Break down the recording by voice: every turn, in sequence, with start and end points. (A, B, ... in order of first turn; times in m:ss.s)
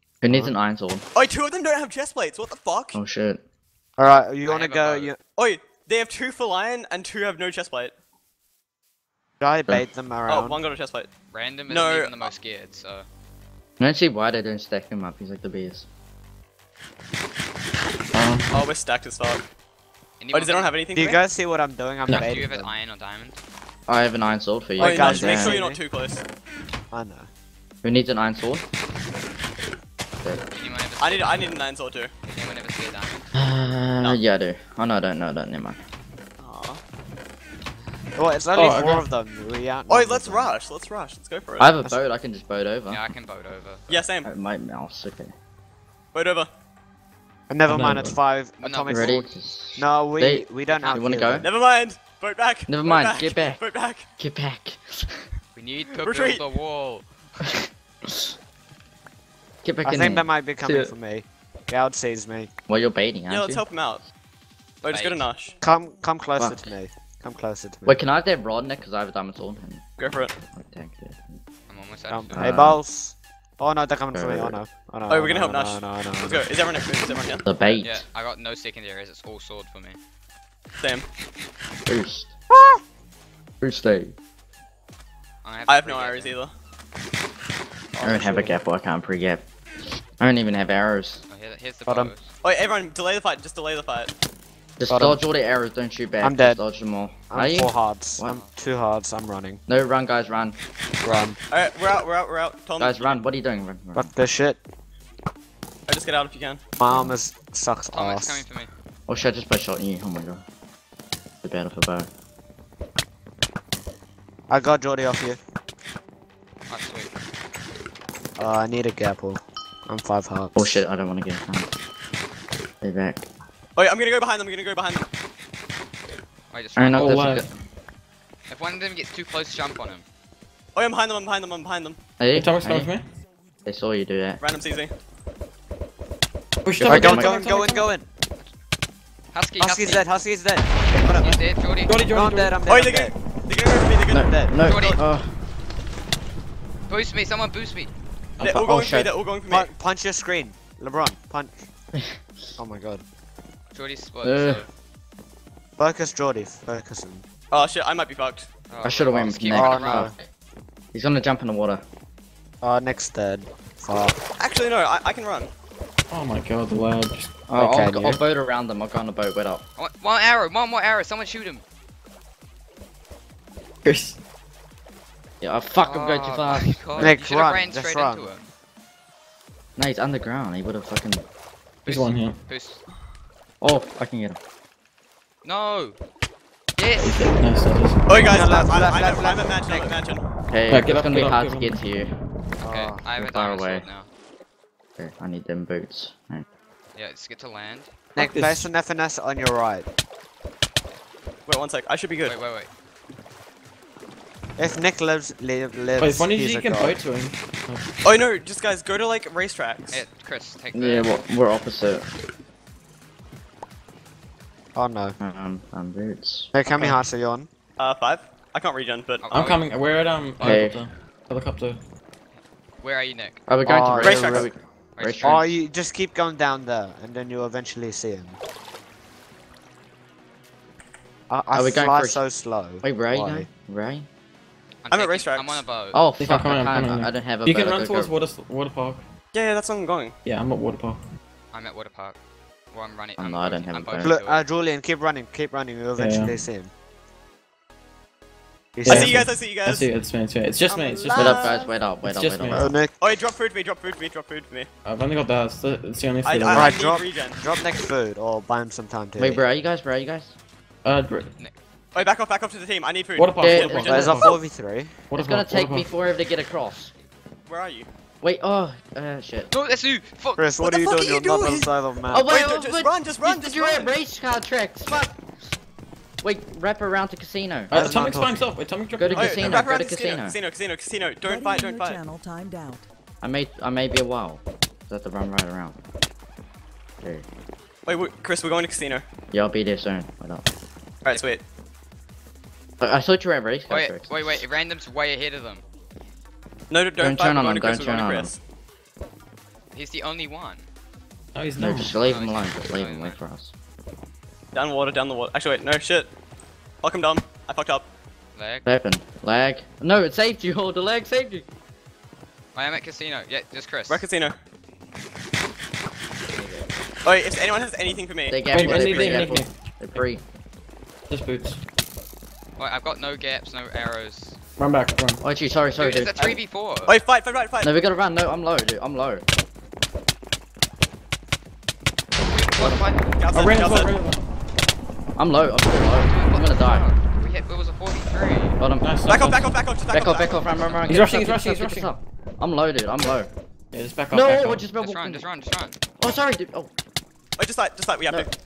0:00.2-0:01.0 A
0:01.2-0:03.0 B
0:02.9-0:03.4 A
0:04.0-0:05.2 C
0:04.3-0:05.1 D
0:05.4-0:07.9 B
0:09.4-0:10.6 C
0:10.3-0:11.1 B
0:11.3-0:13.1 D
0:11.7-0:12.3 B
0:13.8-0:15.9 A
0:18.1-0:18.5 E
0:18.5-0:19.4 B
0:20.2-0:20.7 D
0:20.3-0:21.2 B
0:20.9-0:22.8 C
0:22.1-0:23.4 D
0:23.9-0:25.6 A
0:24.8-0:25.8 C
0:24.8-0:26.2 B
0:25.3-0:25.8 D
0:26.9-0:27.3 C
0:27.8-0:28.7 A
0:30.5-0:31.6 D
0:31.0-0:32.1 B
0:32.3-0:33.3 D
0:33.4-0:35.8 A
0:36.4-0:36.8 B
0:38.2-0:40.6 C
0:38.5-0:39.1 E
0:39.9-0:41.7 B
0:41.6-0:43.0 A
0:42.9-0:44.1 D
0:43.9-0:44.3 B
0:44.2-0:45.3 A
0:46.1-0:46.5 B
0:47.5-0:51.5 C
0:47.7-0:48.2 E
0:48.6-0:49.2 D
0:48.9-0:51.5 A
0:50.7-0:51.1 D
0:51.4-0:54.1 B
0:52.7-0:53.6 A
0:54.2-0:55.3 A
0:55.6-0:57.5 D
0:56.0-0:56.5 B
0:59.6-1:00.9 A
0:59.8-1:02.5 C
1:02.7-1:03.6 A
1:03.3-1:04.0 B
1:04.8-1:05.6 B
1:04.9-1:05.3 D
1:05.6-1:08.0 C
1:06.4-1:06.7 A
1:07.9-1:09.8 A
1:10.0-1:10.4 B
1:10.5-1:11.4 A
1:11.7-1:12.4 D
1:12.1-1:16.5 C
1:12.3-1:12.8 A
1:14.1-1:14.6 A
1:15.1-1:17.4 B
1:17.4-1:18.0 A
1:17.8-1:20.0 D
1:20.8-1:21.1 B
1:21.9-1:22.3 A
1:22.5-1:22.8 C
1:23.6-1:24.1 A
1:25.4-1:26.4 D
1:25.7-1:26.5 B
1:28.0-1:28.6 C
1:28.0-1:29.5 A
1:30.0-1:31.2 A
1:31.3-1:32.3 D
1:31.9-1:32.1 C
1:32.4-1:34.1 B
1:34.8-1:38.4 A
1:34.9-1:35.2 C
1:36.2-1:36.6 C
1:37.3-1:39.6 C
1:38.3-1:38.5 D
1:39.7-1:40.6 A
1:41.0-1:41.4 C
1:41.5-1:43.2 B
1:42.8-1:44.2 A
1:43.9-1:44.6 C
1:45.9-1:46.6 B
1:46.8-1:48.4 C
1:46.8-1:47.2 A
1:47.9-1:48.7 D
1:49.1-1:50.4 A
1:51.4-1:52.1 A
1:54.5-1:55.4 C
1:56.7-1:57.1 D
1:58.4-2:00.8 C
2:00.6-2:01.7 A
2:02.8-2:03.3 A
2:03.8-2:05.0 B
2:06.5-2:07.2 D
2:06.8-2:07.5 A
2:07.0-2:07.5 E
2:08.5-2:10.0 D
2:10.8-2:12.0 B
2:12.2-2:12.9 A
2:12.3-2:13.1 E
2:13.6-2:14.4 A
2:14.4-2:14.9 B
2:16.6-2:17.9 E
2:16.8-2:17.4 A
2:16.9-2:18.1 C
2:19.3-2:20.1 D
2:19.6-2:21.4 C
2:21.1-2:22.0 D
2:21.8-2:22.6 E
2:22.1-2:23.2 C
2:22.7-2:25.0 B
2:24.1-2:25.3 A
2:24.3-2:24.5 C
2:24.6-2:25.0 D
2:26.9-2:27.9 D
2:28.4-2:29.7 B
2:28.4-2:29.1 A
2:29.5-2:31.7 C
2:32.6-2:33.0 C
2:33.7-2:34.7 D
2:34.2-2:34.7 A
2:35.8-2:37.2 C
2:37.5-2:38.5 B
2:38.7-2:40.1 D
2:38.8-2:40.3 A
2:39.5-2:40.1 C
2:40.9-2:41.8 A
2:42.6-2:44.2 C
2:44.4-2:45.5 B
2:46.1-2:47.4 E
2:47.5-2:49.6 A
2:47.6-2:48.2 C
2:49.8-2:51.6 D
2:53.8-2:54.2 E
2:55.4-2:57.1 A
2:55.8-2:58.5 D
2:57.0-2:58.3 C
2:59.8-3:01.2 A
3:01.8-3:02.8 D
3:01.9-3:02.4 E
3:03.6-3:04.4 A
3:05.4-3:06.0 D
3:06.8-3:07.4 D
3:07.0-3:08.2 E
3:08.1-3:10.3 B
3:08.2-3:10.0 C
3:10.5-3:12.1 A
3:10.7-3:11.8 E
3:12.6-3:14.1 D
3:12.6-3:13.1 C
3:13.2-3:13.9 A
3:15.0-3:16.4 A
3:17.0-3:17.9 D
3:18.2-3:19.9 C
3:18.2-3:18.7 E
3:21.5-3:22.4 B
3:22.2-3:22.7 D
3:24.6-3:27.0 C
3:26.0-3:27.9 E
3:28.0-3:30.0 B
3:29.9-3:31.1 D
3:30.7-3:32.1 A
3:34.8-3:35.2 C
3:35.2-3:36.5 A
3:36.5-3:37.5 C
3:36.8-3:37.0 E
3:37.8-3:39.2 B
3:39.2-3:39.7 D
3:39.3-3:41.8 E
3:40.4-3:40.8 A
3:42.8-3:43.4 D
3:43.5-3:45.5 A
3:43.6-3:44.5 C
3:44.0-3:44.5 B
3:45.0-3:45.4 D
3:45.2-3:48.4 C
3:51.3-3:53.5 C
3:51.5-3:52.2 A
3:52.8-3:54.1 A
3:54.8-3:56.0 D
3:54.9-3:55.6 B
3:55.9-3:58.1 A
3:56.2-3:59.1 E
3:59.3-4:00.2 B
4:00.2-4:01.0 E
4:01.5-4:02.2 D
4:02.7-4:04.4 D
4:03.2-4:04.1 A
4:04.0-4:06.7 C
4:06.0-4:06.4 E
4:08.8-4:09.2 C
4:08.8-4:09.9 B
4:08.9-4:11.4 E
4:10.7-4:11.7 F
4:11.1-4:12.7 A
4:11.2-4:11.6 B
4:12.0-4:12.8 E
4:12.5-4:13.0 C
4:13.0-4:14.7 B
4:14.8-4:16.8 E
4:16.2-4:17.4 B
4:16.5-4:19.4 C
4:19.2-4:20.4 A
4:20.8-4:21.3 E
4:21.4-4:22.1 D
4:22.0-4:24.4 B
4:23.2-4:24.4 E
4:23.4-4:24.1 A
4:23.6-4:25.1 C
4:25.1-4:25.9 E
4:25.1-4:26.9 A
4:27.5-4:27.9 B
4:28.2-4:29.5 A
4:29.5-4:30.4 D
4:30.4-4:32.3 C
4:30.6-4:34.0 B
4:32.1-4:35.2 A
4:36.2-4:37.7 A
4:37.7-4:39.7 E
4:37.7-4:38.5 C
4:39.0-4:40.4 A
4:39.1-4:42.1 B
4:41.2-4:42.9 F
4:43.2-4:45.8 A
4:47.0-4:47.3 A
4:47.9-4:49.1 B
4:49.3-4:50.4 A
4:51.0-4:51.4 B
4:52.8-4:54.4 A
4:53.7-4:55.6 D
4:56.7-4:58.4 B
4:57.0-4:58.3 A
4:59.7-5:00.7 D
5:01.4-5:01.9 E
5:01.6-5:03.5 A
5:02.0-5:03.2 D
5:04.5-5:06.1 B
5:06.8-5:07.9 B
5:08.4-5:08.7 D
5:08.7-5:11.4 A
5:12.5-5:14.1 D
5:13.9-5:14.4 B
5:16.3-5:16.7 A
5:17.0-5:19.2 B
5:18.3-5:20.2 A
5:18.5-5:19.5 E
5:21.1-5:21.6 E
5:22.6-5:24.4 D
5:24.6-5:25.2 E
5:25.2-5:26.4 A
5:25.8-5:27.0 D
5:26.9-5:27.7 B
5:27.6-5:29.2 A
5:32.3-5:33.2 D
5:32.6-5:32.9 A
5:33.2-5:33.9 B
5:33.3-5:34.2 E
5:35.2-5:36.9 A
5:36.0-5:38.6 D
5:38.6-5:38.9 A
5:38.8-5:39.5 E
5:39.0-5:40.4 B
5:39.9-5:43.3 A
5:40.9-5:41.9 E
5:43.7-5:44.7 E
5:44.1-5:45.3 A
5:44.8-5:45.8 D
5:46.0-5:46.7 A
5:47.4-5:48.3 B